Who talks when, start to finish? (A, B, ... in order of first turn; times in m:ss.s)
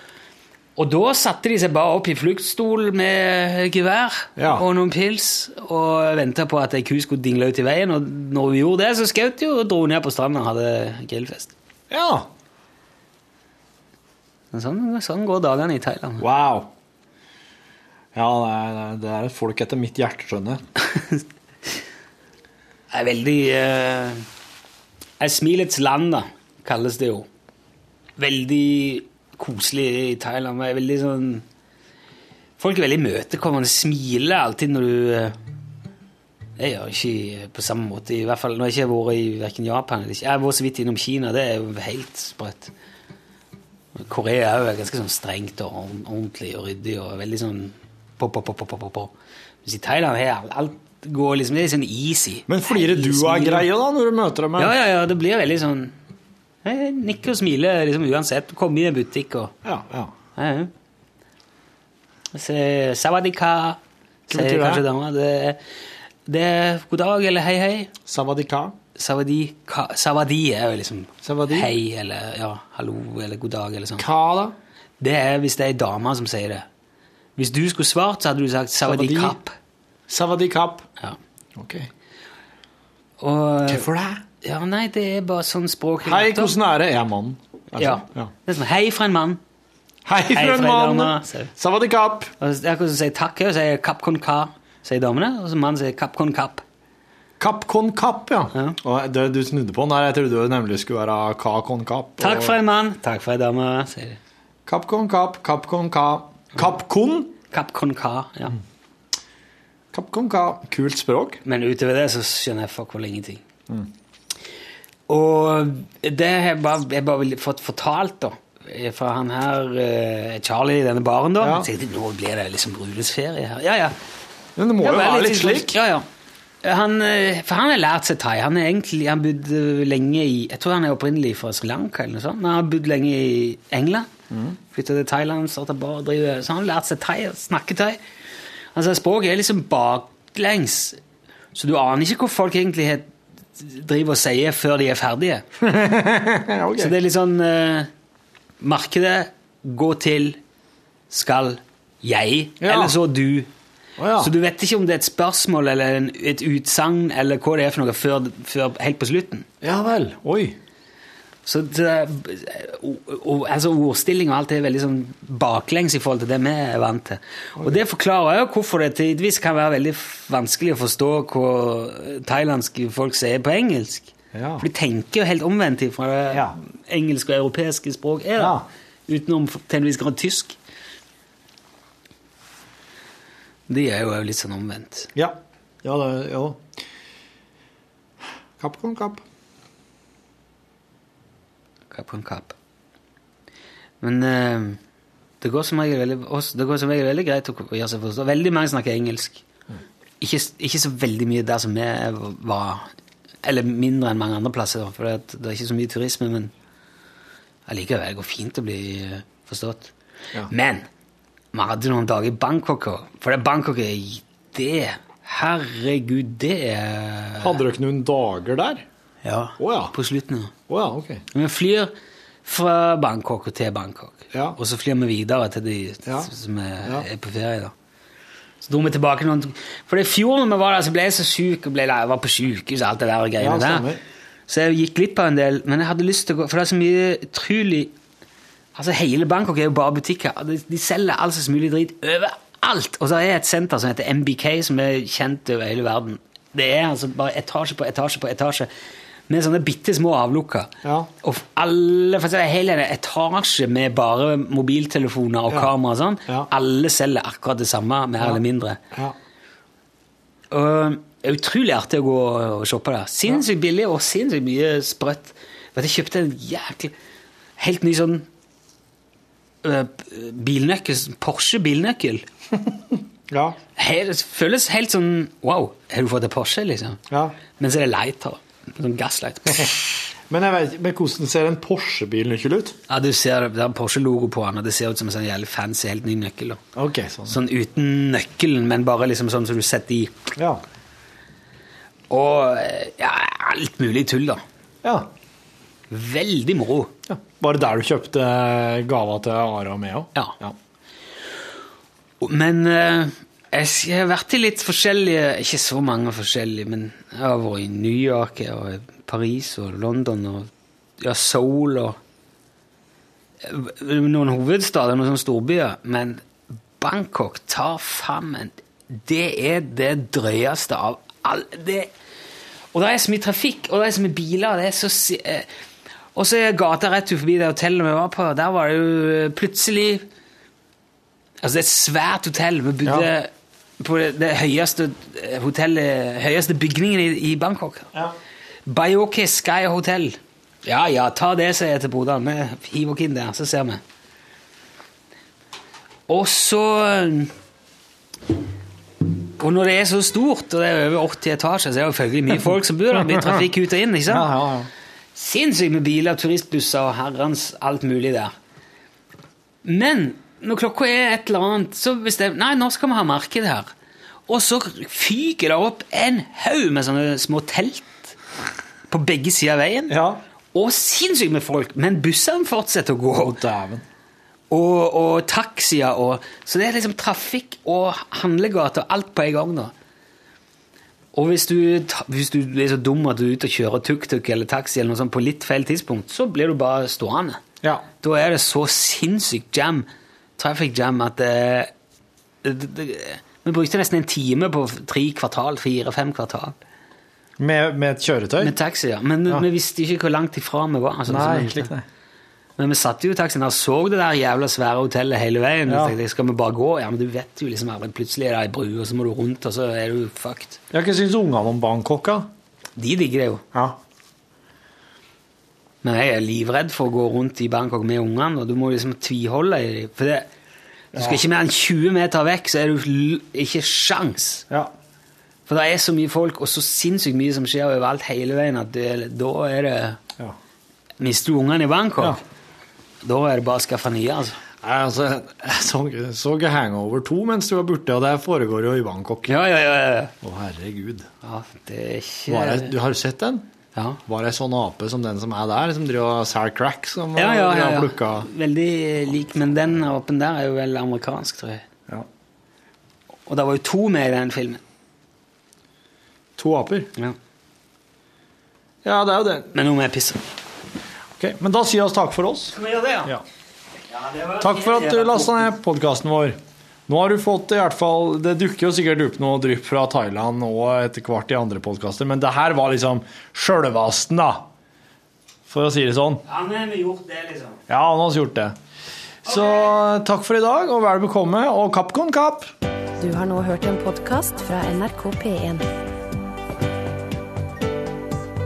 0:00.8-0:11.5 A
0:04.4-0:04.6 B
0:11.9-0:12.3 B
0:14.5-0:16.2 A
0:16.2-0:16.7 B
0:18.1-0:20.6 B
0:22.9-0:24.2 A
0:25.2-0:27.3 A
0:28.2-0:31.4 A
0:32.6-0:35.4 A
0:36.6-0:42.7 A
0:44.0-0:49.1 A
0:49.6-0:53.7 A
0:52.5-0:54.8 B
0:54.6-0:55.9 A
0:56.6-0:59.5 A
0:59.6-1:00.1 B
1:00.4-1:00.7 A
1:02.3-1:03.8 A
1:04.3-1:04.8 B
1:04.3-1:05.6 A
1:06.2-1:07.9 A
1:08.0-1:08.8 B
1:09.0-1:14.0 A
1:11.2-1:11.7 B
1:14.0-1:14.5 B
1:15.0-1:16.6 A
1:17.4-1:19.5 A
1:18.8-1:19.4 B
1:20.1-1:20.9 B
1:21.6-1:21.9 B
1:23.2-1:23.9 A
1:23.7-1:24.2 B
1:24.4-1:26.5 A
1:26.0-1:28.3 B
1:27.8-1:29.4 A
1:30.0-1:32.3 B
1:30.3-1:31.5 A
1:32.4-1:36.6 A
1:37.4-1:42.6 B
1:42.2-1:44.2 A
1:44.6-1:47.4 B
1:47.5-1:48.6 A
1:49.9-1:51.4 B
1:51.4-1:53.4 A
1:55.1-2:04.0 A
2:01.4-2:01.7 B
2:04.6-2:05.8 B
2:04.8-2:06.0 A
2:06.6-2:14.1 A
2:14.3-2:14.6 B
2:14.7-2:18.0 A
2:18.7-2:21.0 A
2:21.5-2:25.4 A
2:25.6-2:26.9 B
2:26.8-2:27.9 A
2:28.6-2:30.4 A
2:31.1-2:33.5 A
2:32.6-2:33.0 B
2:34.0-2:34.3 B
2:34.2-2:39.5 A
2:39.6-2:40.6 B
2:41.4-3:00.6 A
2:54.3-2:54.6 B
2:58.4-2:58.6 B
3:03.7-3:05.1 A
3:05.1-3:06.7 B
3:08.6-3:09.2 B
3:11.9-3:12.5 A
3:14.0-3:14.8 A
3:15.4-3:19.4 A
3:20.2-3:22.9 A
3:23.4-3:26.5 A
3:27.7-3:29.9 A
3:30.5-3:30.9 A
3:31.5-3:37.6 A
3:37.4-3:38.8 B
3:39.2-3:40.5 A
3:39.6-3:39.9 B
3:40.7-3:41.2 B
3:41.3-3:41.9 A
3:42.4-3:47.7 A
3:46.0-3:46.3 B
3:48.6-3:53.9 A
3:53.4-3:54.0 B
3:54.5-3:57.9 A
3:58.7-4:08.7 A
4:09.3-4:18.8 A
4:10.8-4:11.1 B
4:20.5-4:26.9 A
4:27.6-4:28.3 A
4:29.6-4:32.2 A
4:32.5-4:33.6 B
4:33.8-4:37.0 A
4:37.1-4:37.4 B
4:37.6-4:39.8 A
4:40.3-4:42.8 B
4:42.9-4:46.6 A
4:46.8-4:47.4 B
4:47.2-4:50.3 A
4:50.4-4:50.6 B
4:52.1-4:54.4 A
4:54.8-4:55.1 B
4:55.9-4:56.9 A
4:57.1-5:00.6 B
5:02.2-5:12.0 A
5:13.4-5:16.2 A
5:16.8-5:21.9 A
5:22.7-5:25.5 A
5:26.1-5:30.0 A
5:31.4-5:37.9 A
5:38.6-5:43.8 A
5:46.1-5:47.3 A
5:49.4-5:54.3 A
5:53.1-5:53.4 B
5:54.1-5:54.7 B
5:55.1-5:58.3 A
5:59.6-6:03.7 A
6:04.3-6:08.1 A
6:08.9-6:10.0 A
6:09.9-6:10.2 B
6:10.5-6:13.4 A
6:13.1-6:13.8 B
6:14.5-6:19.7 A
6:21.1-6:27.4 A
6:28.0-6:29.9 A
6:30.4-6:31.7 A
6:32.4-6:36.6 A
6:37.4-6:38.5 B
6:38.4-6:41.7 A
6:41.1-6:41.8 B
6:42.6-6:50.6 A
6:45.7-6:46.0 B
6:50.7-6:52.3 B
6:52.8-6:53.4 A
6:53.5-6:53.8 B
6:55.8-7:00.3 A
7:00.9-7:01.2 B
7:00.9-7:04.4 A
7:05.5-7:10.0 A
7:11.0-7:12.2 A
7:13.0-7:14.4 A
7:14.6-7:19.4 B
7:19.3-7:20.1 A
7:20.2-7:21.1 B
7:21.2-7:22.7 A
7:22.3-7:23.5 B
7:23.7-7:24.0 A
7:24.0-7:28.3 B
7:27.2-7:31.6 A
7:33.3-7:34.6 A
7:36.4-7:36.9 B
7:38.8-7:39.5 B
7:39.5-7:40.2 A
7:41.2-7:43.2 B
7:42.5-7:43.1 A
7:43.9-7:45.5 A
7:44.4-7:54.5 B
7:55.5-7:56.2 B
7:56.2-7:57.6 A
7:57.7-7:58.6 B
7:59.2-8:02.5 B
8:03.0-8:05.7 C